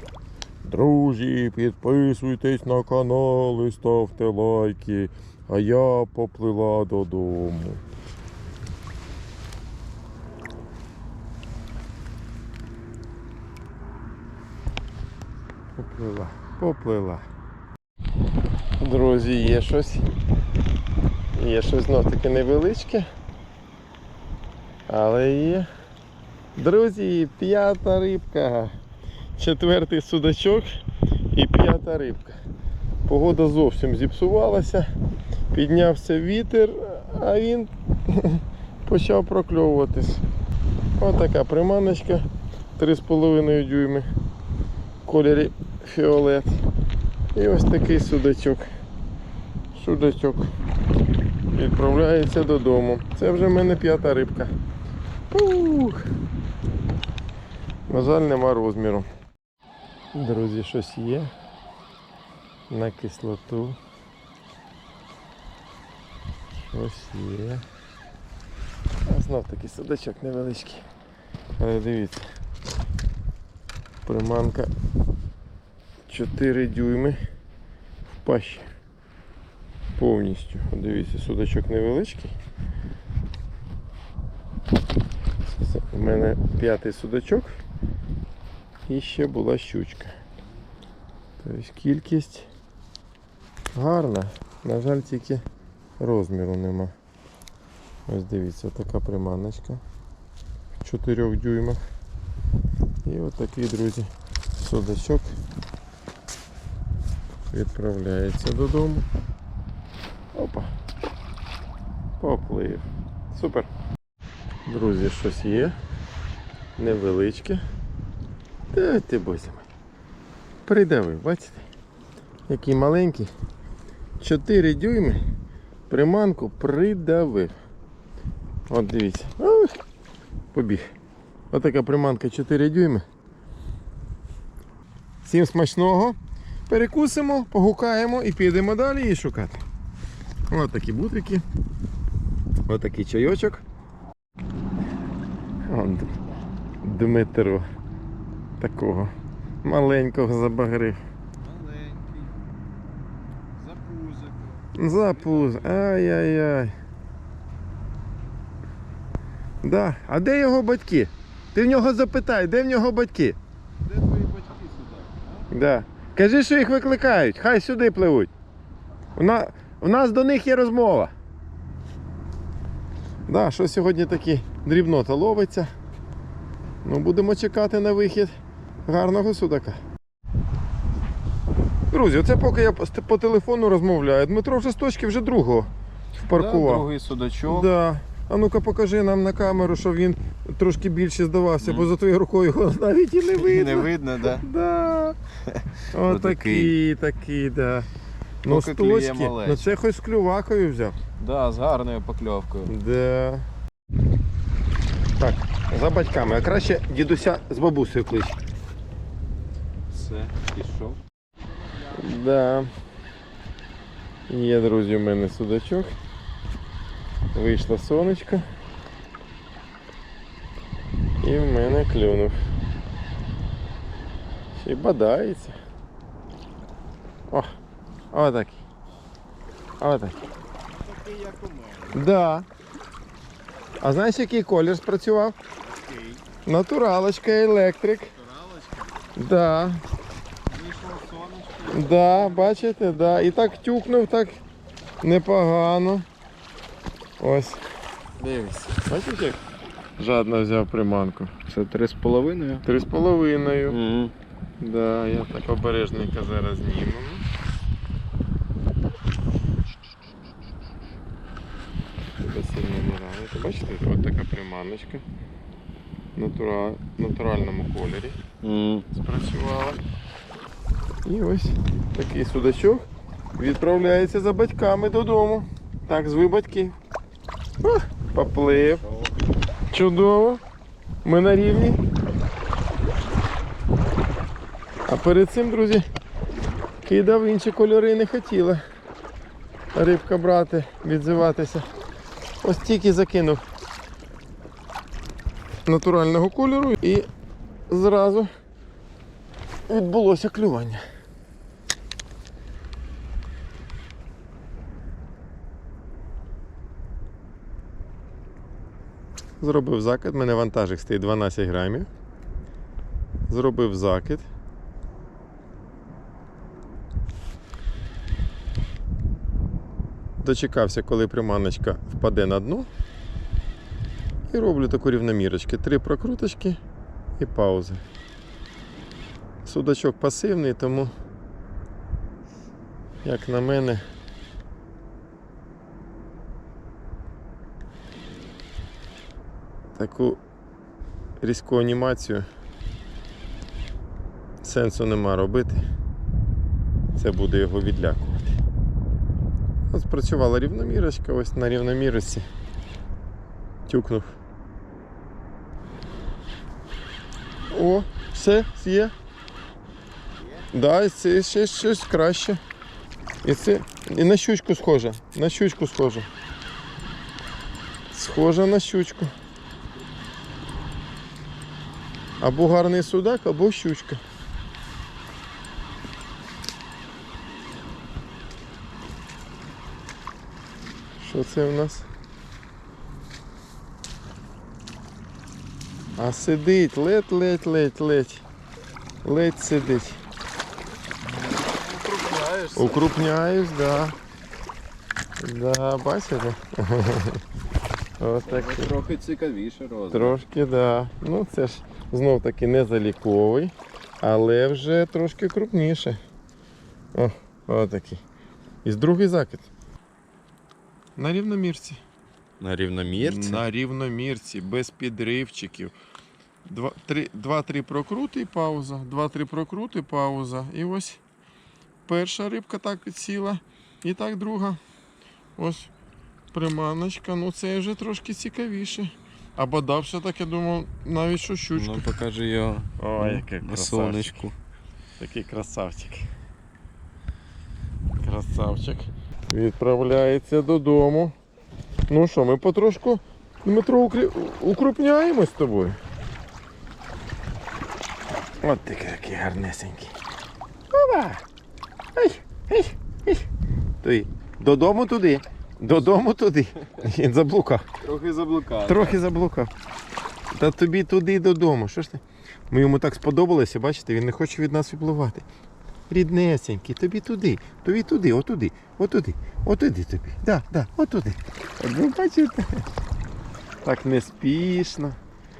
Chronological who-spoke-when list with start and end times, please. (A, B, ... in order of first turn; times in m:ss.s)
0:00.6-0:07.8 A
0:15.8-0:17.2 A
0:18.8-0:20.0 A
0:21.3-0:23.1 A
0:24.9-0:25.7 A
0:26.6-0:28.7 A
0:29.4-0:30.7 A
0:31.3-0:32.4 A
0:33.0-0:34.9 A
0:35.5-0:40.2 A
0:41.0-0:42.2 A
0:42.8-0:44.1 A
0:45.0-0:46.5 A
0:47.3-0:48.6 A
0:49.7-0:50.5 A
0:51.5-0:54.5 A
0:55.3-0:56.1 A
0:57.9-0:59.0 A
1:00.1-1:01.3 A
1:02.7-1:03.8 A
1:06.6-1:07.6 A
1:09.0-1:10.8 A
1:11.6-1:12.2 A
1:14.0-1:14.7 A
1:16.1-1:17.2 A
1:18.1-1:18.7 A
1:20.0-1:22.3 A
1:25.4-1:27.5 A
1:28.9-1:30.1 A
1:31.4-1:32.5 A
1:33.7-1:35.4 A
1:36.0-1:36.9 A
1:38.1-1:39.8 A
1:40.8-1:41.8 A
1:43.0-1:45.3 A
1:47.5-1:49.0 A
1:50.3-1:50.7 A
1:52.2-1:53.7 A
1:54.6-1:55.7 A
1:56.8-1:57.6 A
1:58.7-1:59.6 A
2:00.6-2:01.6 A
2:02.5-2:03.3 A
2:04.2-2:05.2 A
2:05.9-2:07.5 A
2:08.7-2:09.7 A
2:10.5-2:10.9 A
2:11.5-2:13.0 A
2:15.2-2:16.2 A
2:16.7-2:19.6 A
2:20.5-2:21.4 A
2:22.7-2:23.6 A
2:25.7-2:26.2 A
2:26.8-2:27.6 A
2:28.6-2:29.1 A
2:29.6-2:31.0 A
2:31.4-2:32.4 B
2:33.6-2:35.9 B
2:34.7-2:36.7 A
2:39.6-2:43.4 A
2:43.8-2:45.5 B
2:45.5-2:48.3 A
2:49.2-2:51.1 A
2:53.3-2:55.7 A
2:56.8-2:58.3 A
2:58.8-2:59.8 A
3:01.9-3:06.9 A
3:06.3-3:07.7 B
3:07.4-3:15.2 A
3:11.6-3:11.9 B
3:13.3-3:14.5 B
3:15.5-3:16.7 B
3:15.9-3:17.9 A
3:18.4-3:21.0 A
3:18.4-3:19.8 B
3:21.2-3:22.7 B
3:22.7-3:23.5 A
3:25.2-3:28.4 A
3:29.9-3:31.0 B
3:31.9-3:32.7 A
3:34.3-3:35.9 A
3:37.3-3:38.4 A
3:41.2-3:42.4 A
3:44.5-3:45.6 A
3:48.1-3:48.6 A
3:49.8-3:50.2 A
3:50.7-3:52.0 B
3:51.9-3:52.5 A
3:53.8-3:55.4 A
3:55.6-3:56.2 B
3:56.4-3:58.1 A
3:58.1-3:59.1 B
3:59.2-3:59.8 A
4:00.5-4:02.6 B
4:01.7-4:04.4 A
4:05.0-4:06.0 A
4:07.2-4:07.6 A
4:08.2-4:08.7 B
4:08.7-4:09.4 A
4:10.0-4:11.3 A
4:11.4-4:12.6 B
4:12.6-4:13.8 A
4:13.7-4:14.1 B
4:14.6-4:17.2 A
4:22.2-4:25.0 A
4:26.2-4:28.2 A
4:28.4-4:28.8 B
4:28.9-4:29.8 A
4:31.0-4:36.8 A
4:37.6-4:38.8 A
4:39.7-4:40.4 A
4:41.0-4:41.8 A
4:44.9-4:45.8 A
4:46.8-4:48.6 A
4:49.7-4:51.6 A
4:52.4-4:53.4 A
4:55.6-4:57.1 A
4:57.7-4:58.3 A
4:59.7-5:00.8 A
5:09.4-5:11.9 A
5:13.3-5:14.3 A
5:20.2-5:22.7 A
5:24.3-5:26.6 A
5:27.2-5:27.8 A
5:29.4-5:30.9 A
5:33.0-5:33.8 A
5:39.8-5:40.2 A
5:41.2-5:42.2 A
5:44.4-5:45.6 A
5:47.0-5:48.3 A
5:49.7-5:52.3 A
5:53.7-5:54.2 A
5:57.5-5:58.9 A
6:00.5-6:02.4 A
6:03.2-6:06.1 A
6:07.9-6:09.1 A
6:12.2-6:14.0 A
6:21.0-6:21.9 A
6:26.0-6:28.2 A
6:29.0-6:30.0 A
6:31.0-6:33.1 B
6:32.6-6:34.0 A
6:35.2-6:37.2 A
6:38.0-6:38.8 A
6:38.2-6:40.2 B
6:39.9-6:46.0 A
6:46.9-6:48.0 A
6:48.6-6:49.5 A
6:51.0-6:51.8 A
6:52.4-6:53.4 B
6:53.0-6:55.7 A
6:56.4-7:01.0 A
7:01.9-7:04.6 A
7:05.4-7:05.7 A
7:06.3-7:11.8 A
7:11.5-7:14.3 B
7:12.8-7:14.3 A
7:15.0-7:16.0 A
7:18.0-7:21.1 A
7:21.9-7:25.8 A
7:28.4-7:29.9 A
7:30.7-7:31.2 A
7:32.0-7:33.2 A
7:33.8-7:37.7 A
7:37.8-7:39.0 B
7:38.6-7:39.5 A
7:40.3-7:45.2 A
7:45.9-7:52.6 A
7:53.6-7:55.0 A